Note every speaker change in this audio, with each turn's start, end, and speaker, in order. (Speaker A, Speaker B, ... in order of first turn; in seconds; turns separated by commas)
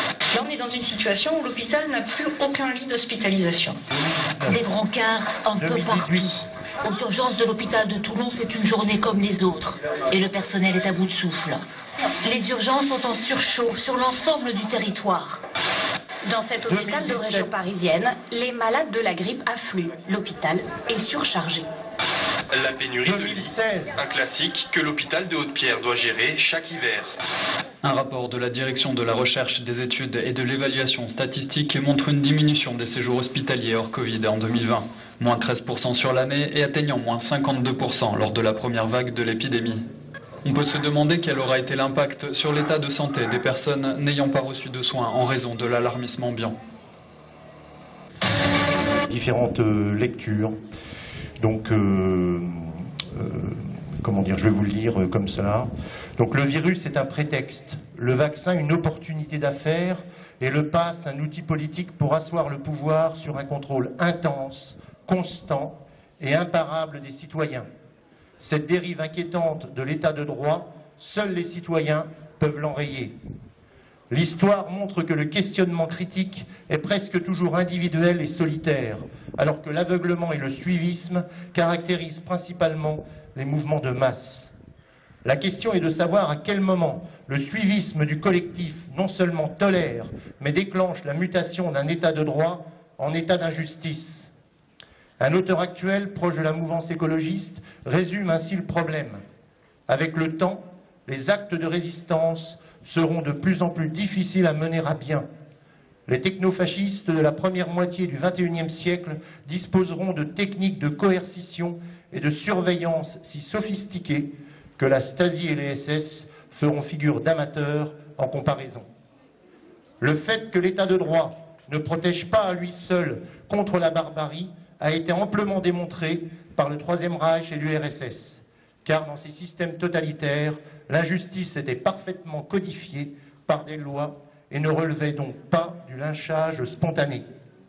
Speaker A: 0.3-3.8, Speaker B: 3.9-4.6, Speaker C: 4.5-11.6, Speaker B: 5.6-6.4, Speaker C: 12.2-15.4, Speaker A: 16.3-21.7, Speaker B: 16.7-17.5, Speaker D: 22.5-27.1, Speaker B: 23.0-24.0, Speaker E: 27.8-39.8, Speaker E: 40.4-46.5, Speaker B: 49.1-50.6, Speaker B: 51.4-67.7, Speaker B: 68.4-73.1, Speaker B: 74.1-84.5, Speaker B: 85.2-94.3, Speaker B: 95.2-99.2, Speaker B: 99.9-105.3, Speaker B: 106.1-118.9, Speaker B: 120.0-137.2